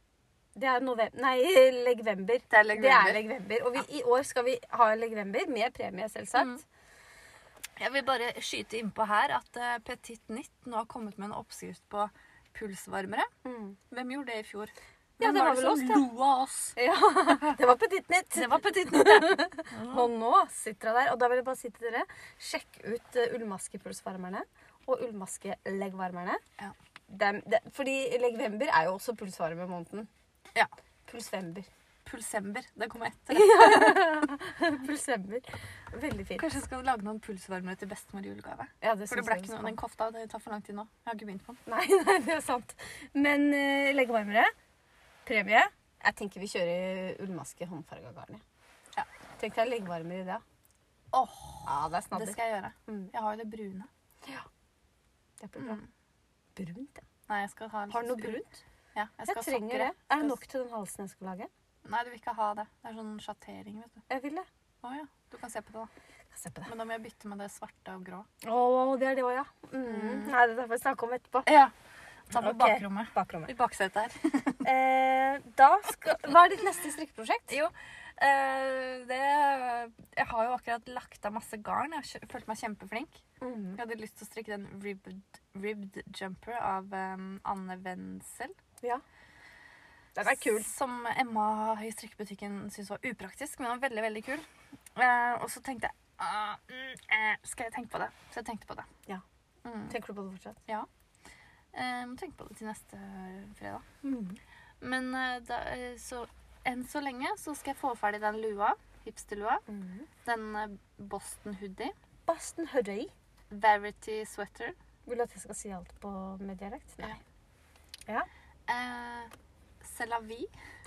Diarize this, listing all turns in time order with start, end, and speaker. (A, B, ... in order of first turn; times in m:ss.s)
0:00.6-0:06.6 A
0:02.5-0:03.2 B
0:06.4-0:06.6 B
0:07.8-0:13.3 B
0:13.4-0:13.8 A
0:13.9-0:17.6 B
0:15.2-0:16.1 A
0:16.8-0:26.4 A
0:18.3-0:20.1 B
0:27.1-0:30.1 A
0:31.1-0:31.7 A
0:32.0-0:34.2 B
0:33.3-0:36.5 A
0:36.4-0:41.6 B
0:38.8-0:39.8 A
0:41.6-0:44.5 A
0:45.2-0:48.4 A
0:49.4-0:50.4 A
0:51.1-0:53.9 B
0:51.6-0:53.1 A
0:55.4-0:55.8 A
0:55.6-0:55.9 B
0:56.6-0:57.0 A
0:57.3-0:58.4 B
0:57.9-0:58.6 A
0:58.9-1:00.3 B
0:59.2-1:01.5 A
1:01.8-1:04.0 B
1:04.1-1:04.4 A
1:04.8-1:05.9 B
1:06.3-1:06.7 A
1:06.6-1:08.3 B
1:08.4-1:11.5 A
1:09.8-1:10.3 B
1:11.4-1:11.7 B
1:12.3-1:14.6 B
1:12.3-1:13.5 A
1:14.6-1:17.6 A
1:17.5-1:23.2 B
1:23.4-1:23.8 A
1:23.8-1:28.5 B
1:30.2-1:30.7 A
1:30.2-1:38.9 B
1:39.6-1:39.9 B
1:39.9-1:40.6 A
1:41.7-1:43.9 B
1:44.0-1:44.4 A
1:44.8-1:49.6 B
1:49.7-1:50.1 A
1:50.2-1:51.9 B
1:52.3-1:53.1 A
1:53.5-1:54.8 B
1:55.0-1:57.2 A
1:58.7-2:00.5 B